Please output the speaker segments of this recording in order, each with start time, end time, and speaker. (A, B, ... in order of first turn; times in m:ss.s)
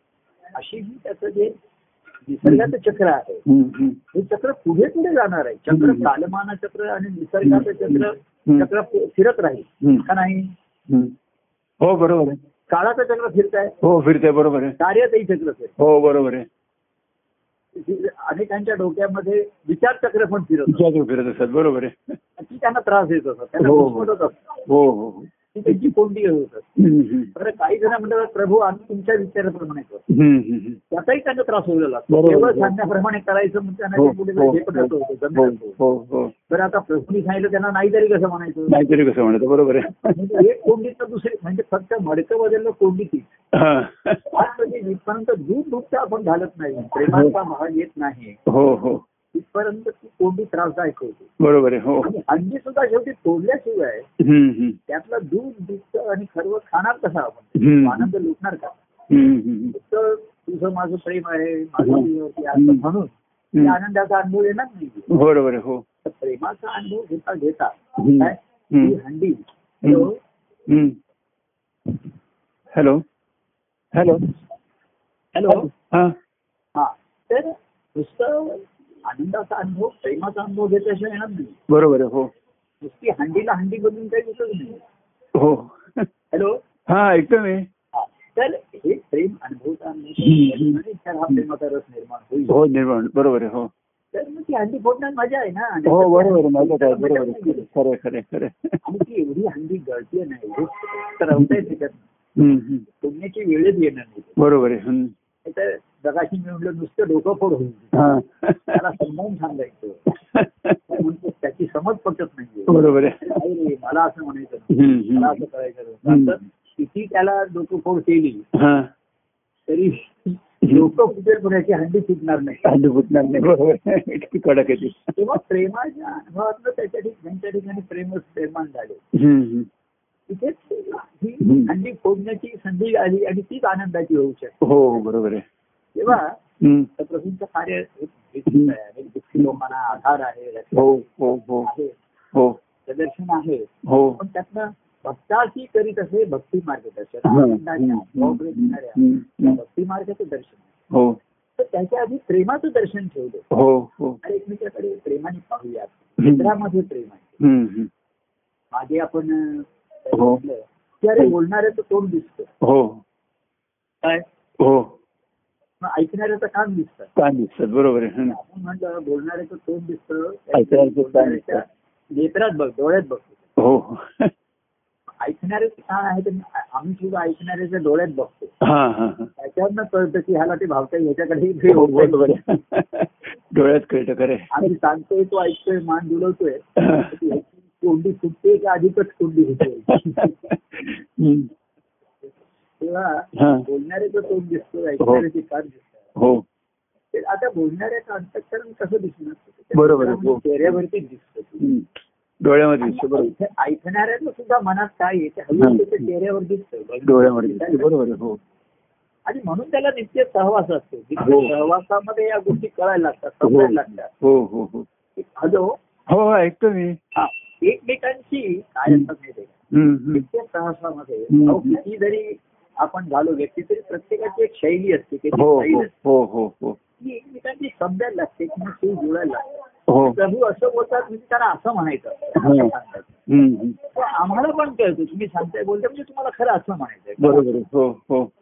0:00.5-0:01.6 A
0:02.2-0:03.4 A
0:02.4-0:02.7 B
0:03.5-0:04.0 B
0:04.1-0:10.5 A
0:05.7-0:06.1 B
0:07.4-0:08.7 B
0:10.9-0:11.2 B
0:11.8-0:12.4 B
0:12.7-0:13.8 A
0:13.8-0:14.8 B
0:14.8-0:15.8 A
0:15.8-0:16.5 B
0:17.8-0:20.8 A
0:20.7-0:22.2 B
0:22.4-0:24.5 A
0:23.6-0:24.1 B
0:24.7-0:25.9 B
0:25.5-0:26.8 A
0:26.8-0:27.3 B
0:27.4-0:30.1 A
0:30.1-0:30.8 B
0:30.9-0:35.8 A
0:32.1-0:32.9 B
0:34.0-0:36.3 B
0:36.5-0:38.8 A
0:38.7-0:40.5 B
0:40.0-0:43.4 A
0:43.5-0:44.4 B
0:44.2-0:48.4 A
0:47.1-0:47.4 B
0:48.5-0:49.0 B
0:49.3-0:51.3 A
0:51.4-0:52.1 B
0:52.0-0:54.1 A
0:54.2-0:54.8 B
0:54.9-0:58.8 A
0:57.6-0:58.1 B
0:59.1-0:59.8 B
0:59.7-1:05.1 A
1:01.8-1:02.8 B
1:05.1-1:05.8 B
1:06.0-1:10.2 A
1:08.0-1:09.0 B
1:10.7-1:11.0 B
1:12.7-1:13.0 B
1:13.9-1:14.3 B
1:15.4-1:15.7 A
1:15.5-1:16.2 B
1:16.8-1:21.6 A
1:21.7-1:22.3 B
1:22.8-1:24.8 A
1:25.4-1:26.1 B
1:26.3-1:26.6 A
1:26.9-1:27.7 B
1:27.9-1:32.6 A
1:30.2-1:30.8 B
1:32.5-1:33.7 B
1:34.1-1:37.7 A
1:35.9-1:38.8 B
1:38.8-1:42.1 A
1:41.3-1:41.7 B
1:42.4-1:42.9 B
1:43.0-1:44.4 A
1:44.4-1:45.1 B
1:45.4-1:48.0 A
1:47.9-1:48.8 B
1:48.7-1:50.1 A
1:50.3-1:51.0 B
1:50.9-1:58.4 A
1:52.7-1:53.4 B
1:54.7-1:55.4 B
1:56.1-1:56.4 B
1:58.5-1:58.9 B
1:59.7-2:02.7 A
2:00.6-2:00.9 B
2:02.6-2:05.2 B
2:05.2-2:09.0 A
2:09.1-2:09.7 B
2:10.3-2:14.6 A
2:11.4-2:11.7 B
2:14.6-2:15.5 B
2:16.0-2:16.4 A
2:16.1-2:16.9 B
2:17.0-2:21.1 A
2:18.5-2:18.7 B
2:20.7-2:21.7 B
2:21.6-2:22.0 A
2:22.9-2:30.7 A
2:23.9-2:24.2 B
2:27.3-2:29.6 B
2:30.9-2:31.2 B
2:31.6-2:33.5 A
2:33.5-2:34.2 B
2:34.2-2:37.4 A
2:36.2-2:36.5 B
2:37.4-2:37.9 B
2:38.7-2:42.5 A
2:40.1-2:40.4 B
2:42.6-2:43.0 B
2:44.6-2:44.9 B
2:45.8-2:47.1 A
2:47.2-2:48.4 B
2:48.3-2:53.4 A
2:50.5-2:51.6 B
2:53.6-2:54.3 B
2:55.2-2:58.5 A
2:58.6-2:59.3 B
2:59.4-3:02.4 A
3:01.7-3:04.7 B
3:04.5-3:10.3 A
3:06.8-3:07.1 B
3:09.9-3:11.5 B
3:12.8-3:16.1 A
3:13.4-3:13.6 B
3:16.2-3:16.4 B
3:17.1-3:21.7 A
3:19.8-3:20.7 B
3:21.6-3:21.9 B
3:22.4-3:23.3 B
3:22.8-3:27.9 A
3:25.6-3:26.1 B
3:27.0-3:28.4 B
3:29.3-3:34.1 A
3:31.2-3:31.5 B
3:33.4-3:34.9 B
3:35.2-3:35.7 A
3:36.1-3:37.0 B
3:37.2-3:39.6 A
3:39.7-3:40.2 B
3:40.1-3:45.9 A
3:41.3-3:41.8 B
3:45.3-3:46.8 B
3:47.0-3:53.2 A
3:49.9-3:50.2 B
3:52.4-3:52.7 B
3:53.3-3:53.8 B
3:53.9-3:57.4 A
3:57.2-3:58.3 B